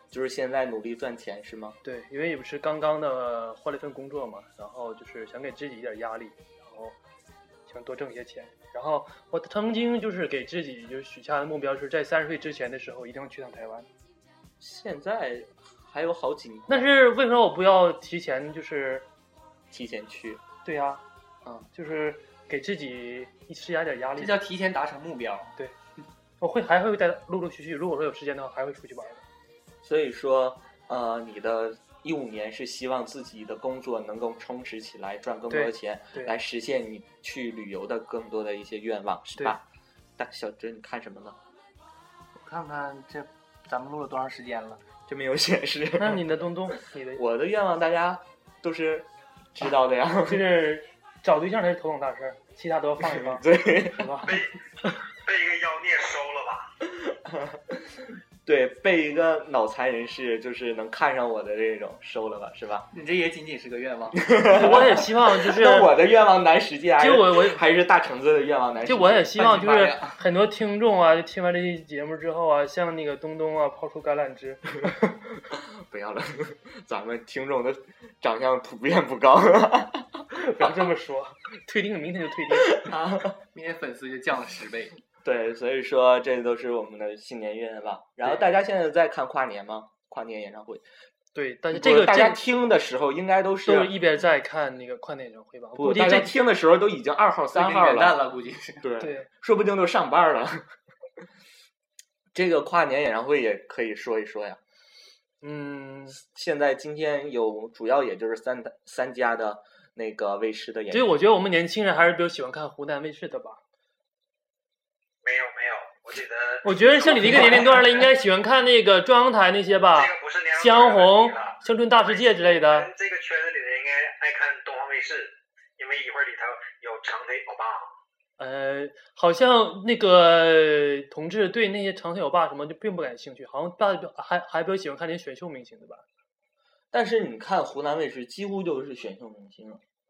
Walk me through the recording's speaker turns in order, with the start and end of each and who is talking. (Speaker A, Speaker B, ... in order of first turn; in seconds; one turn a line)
Speaker A: 0.1-1.8
Speaker B: 1.8-7.0
Speaker B: 7.7-13.9
Speaker A: 14.6-16.9
Speaker B: 16.7-19.1
Speaker A: 19.7-20.4
Speaker B: 20.6-21.0
Speaker B: 21.7-24.4
Speaker C: 24.1-25.5
Speaker B: 26.4-29.2
Speaker A: 29.8-39.6
Speaker B: 35.5-36.4
Speaker A: 40.2-41.4
Speaker C: 42.4-44.8
Speaker A: 45.1-46.3
Speaker B: 46.0-47.2
Speaker A: 47.1-50.4
Speaker B: 50.3-54.3
Speaker A: 53.0-54.4
Speaker D: 54.2-54.6
Speaker D: 55.1-56.7
Speaker A: 57.0-57.8
Speaker A: 58.5-62.9
Speaker C: 62.9-64.2
Speaker A: 64.2-69.3
Speaker B: 64.5-65.9
Speaker B: 67.0-67.6
Speaker B: 68.8-74.9
Speaker C: 69.3-70.2
Speaker A: 75.5-80.8
Speaker B: 80.3-82.9
Speaker A: 82.5-83.4
Speaker C: 83.5-85.0
Speaker A: 85.2-90.8
Speaker B: 91.3-92.4
Speaker A: 91.7-93.9
Speaker B: 93.6-96.3
Speaker A: 95.8-98.2
Speaker C: 97.5-98.9
Speaker A: 98.8-100.7
Speaker B: 99.0-99.3
Speaker A: 102.3-104.6
Speaker B: 105.4-106.2
Speaker A: 106.1-111.2
Speaker B: 110.9-113.6
Speaker D: 115.2-118.0
Speaker B: 116.6-122.9
Speaker A: 117.2-117.7
Speaker D: 119.9-127.9
Speaker B: 128.4-136.0
Speaker A: 136.9-139.8